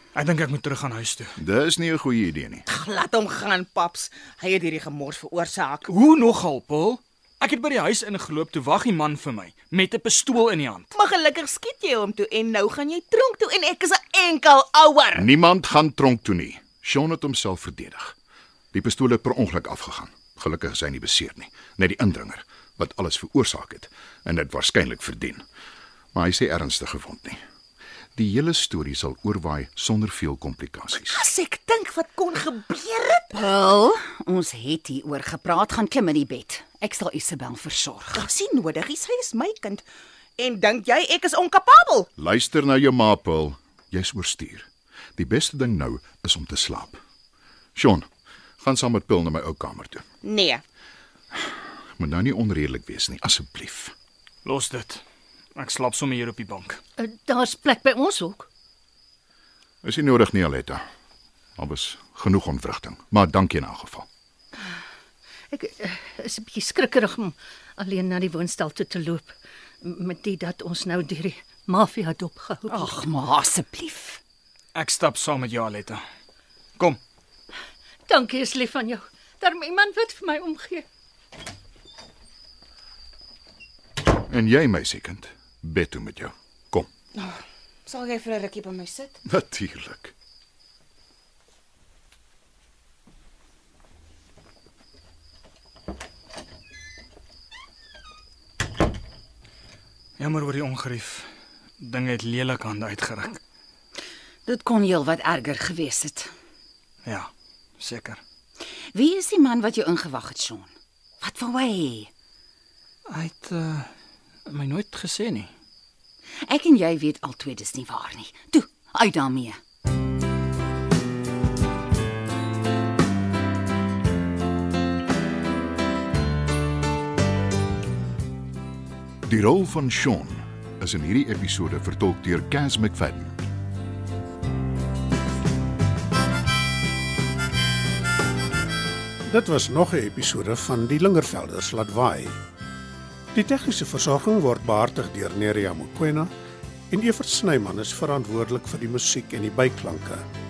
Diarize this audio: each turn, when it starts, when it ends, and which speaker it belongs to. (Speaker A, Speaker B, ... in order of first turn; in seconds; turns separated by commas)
Speaker A: 0.1-1.3, Speaker B: 1.4-2.6, Speaker C: 2.7-5.9, Speaker A: 5.9-10.9, Speaker C: 10.9-15.3, Speaker B: 15.1-18.1, Speaker B: 18.7-25.4, Speaker B: 26.1-27.4, Speaker B: 28.1-31.1, Speaker C: 31.1-33.4, Speaker D: 33.3-38.3, Speaker C: 38.1-39.8, Speaker C: 40.4-42.1, Speaker B: 42.2-47.0, Speaker B: 47.8-48.1, Speaker B: 48.6-50.0, Speaker C: 50.2-50.6, Speaker B: 52.0-53.9, Speaker A: 54.4-55.0, Speaker A: 55.5-56.8, Speaker E: 57.0-58.5, Speaker B: 59.8-60.8, Speaker B: 61.6-64.1, Speaker E: 65.5-73.0, Speaker D: 72.7-74.2, Speaker A: 74.7-76.0, Speaker E: 78.1-80.8, Speaker B: 84.3-86.9, Speaker C: 87.1-89.1, Speaker B: 89.3-90.1, Speaker A: 100.2-103.4, Speaker D: 104.5-106.3, Speaker A: 107.0-108.2, Speaker D: 108.9-112.1, Speaker A: 113.1-113.9, Speaker A: 114.5-115.5, Speaker D: 116.4-119.6, Speaker B: 129.2-133.4, Speaker F: 139.3-142.3, Speaker F: 143.3-146.3, Speaker F: 146.9-150.2